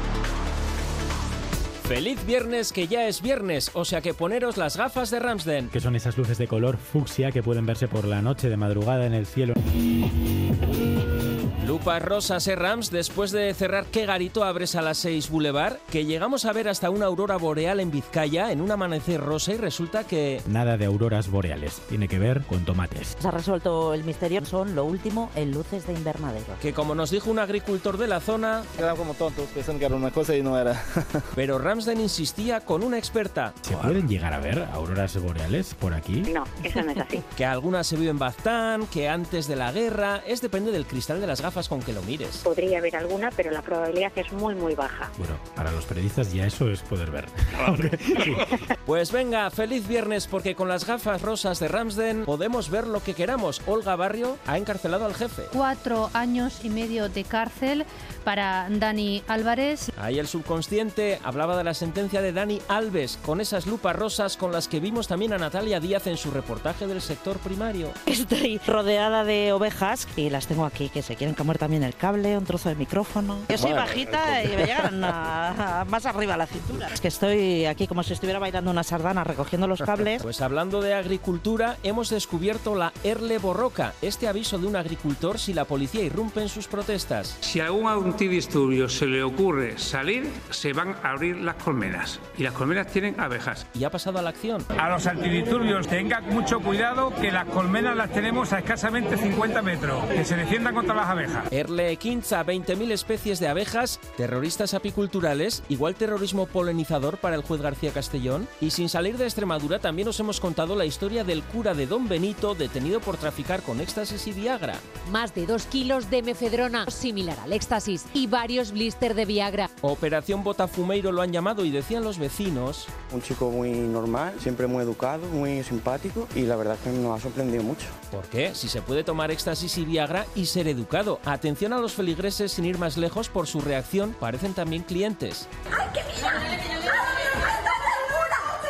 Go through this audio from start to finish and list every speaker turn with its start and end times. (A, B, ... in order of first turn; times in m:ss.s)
0:01.8-0:05.7 A
0:05.7-0:09.6 B
0:11.6-0:20.4 A
0:20.5-0:23.1 B
0:23.2-0:26.5 C
0:26.6-0:28.7 A
0:28.7-0:31.2 D
0:31.4-0:34.0 A
0:33.6-0:36.3 B
0:36.3-0:37.2 E
0:37.4-0:42.4 A
0:42.4-0:45.1 E
0:45.2-0:48.6 B
0:48.8-0:55.5 A
0:55.5-0:59.9 F
1:00.0-1:07.9 A
1:08.1-1:20.2 C
1:20.2-1:27.4 A
1:27.4-1:33.6 G
1:33.7-1:34.7 A
1:34.8-1:41.5 G
1:41.5-1:54.9 A
1:55.1-1:59.7 H
1:59.8-2:02.9 A
2:03.1-2:07.9 I
2:08.1-2:15.5 A